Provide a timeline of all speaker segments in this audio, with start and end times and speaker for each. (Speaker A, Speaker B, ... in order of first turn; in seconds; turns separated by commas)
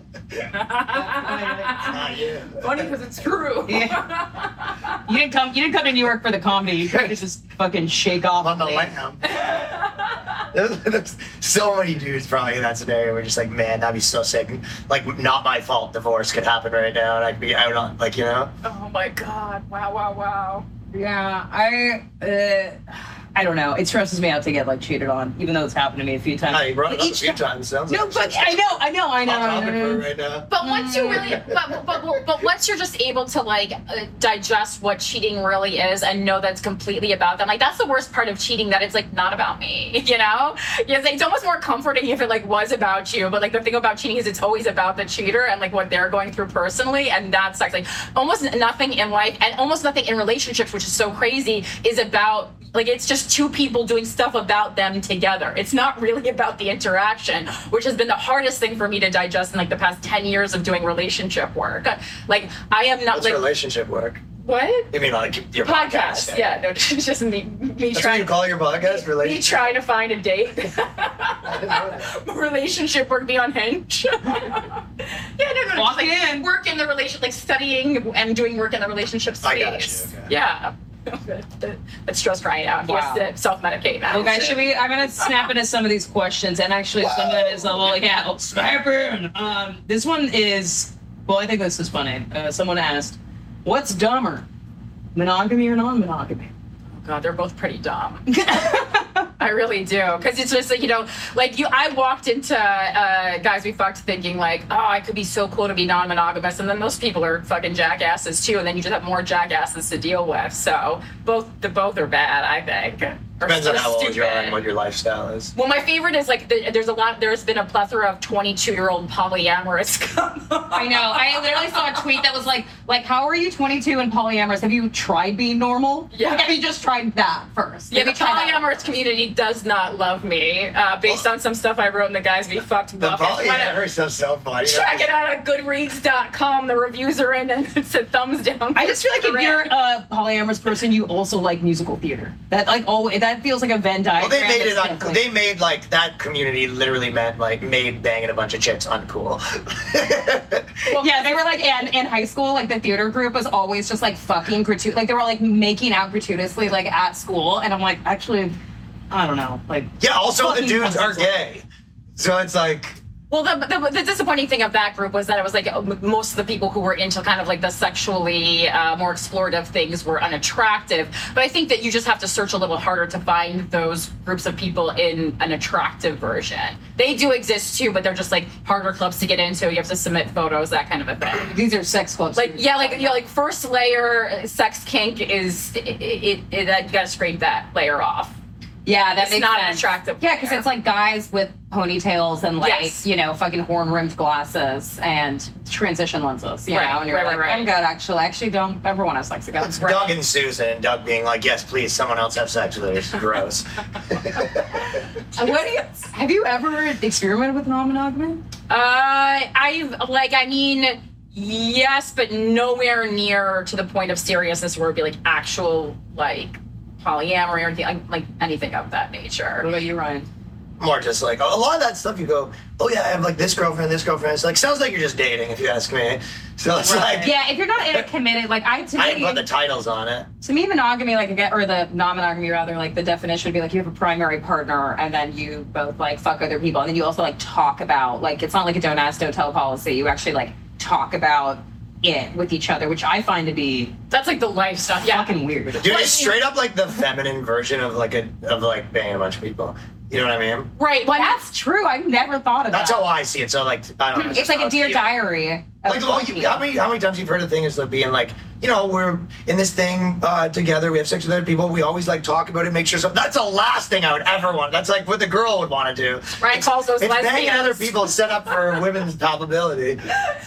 Speaker A: 0.5-4.8, Speaker B: 1.0-1.9, Speaker C: 1.9-2.8, Speaker B: 3.7-4.1, Speaker B: 5.0-8.9, Speaker C: 8.4-9.4, Speaker A: 9.3-10.3, Speaker C: 10.5-18.5, Speaker A: 18.6-20.7, Speaker B: 20.9-30.1, Speaker C: 26.5-30.5, Speaker A: 30.5-63.5, Speaker B: 30.6-31.4, Speaker C: 31.1-31.5, Speaker C: 63.1-64.2, Speaker A: 64.4-64.9, Speaker C: 64.9-66.4, Speaker A: 65.6-84.7, Speaker C: 67.9-69.7, Speaker C: 71.5-72.1, Speaker B: 75.7-76.5, Speaker C: 79.4-80.3, Speaker B: 82.8-83.3, Speaker B: 84.1-94.5, Speaker C: 84.1-84.6, Speaker C: 87.0-87.8, Speaker B: 95.2-96.5, Speaker A: 97.0-98.8, Speaker B: 98.3-99.3, Speaker A: 99.4-114.6, Speaker C: 113.4-115.5, Speaker A: 115.5-122.0, Speaker B: 120.7-128.7, Speaker A: 126.1-126.5, Speaker A: 127.9-133.8, Speaker C: 133.0-135.1, Speaker A: 134.6-139.7, Speaker B: 138.7-145.2, Speaker C: 144.2-150.9, Speaker A: 150.9-151.2, Speaker B: 150.9-158.6, Speaker B: 159.1-161.4, Speaker C: 160.0-161.7, Speaker C: 162.2-163.0, Speaker A: 163.3-181.5, Speaker B: 181.5-183.2, Speaker A: 182.4-188.3, Speaker B: 188.8-200.2, Speaker A: 189.2-190.6, Speaker A: 192.6-193.1, Speaker A: 196.7-197.7, Speaker C: 199.6-204.9, Speaker B: 205.4-208.4, Speaker A: 205.4-206.0, Speaker A: 208.7-219.7, Speaker B: 219.6-220.3, Speaker C: 220.8-227.4, Speaker B: 226.8-229.5, Speaker C: 229.0-230.3, Speaker B: 230.4-244.0, Speaker A: 244.1-246.4, Speaker B: 245.1-246.2, Speaker C: 245.8-250.7, Speaker A: 250.8-251.4, Speaker B: 251.1-253.1, Speaker C: 252.7-255.2, Speaker B: 254.3-256.6, Speaker C: 255.8-270.1, Speaker A: 266.4-268.7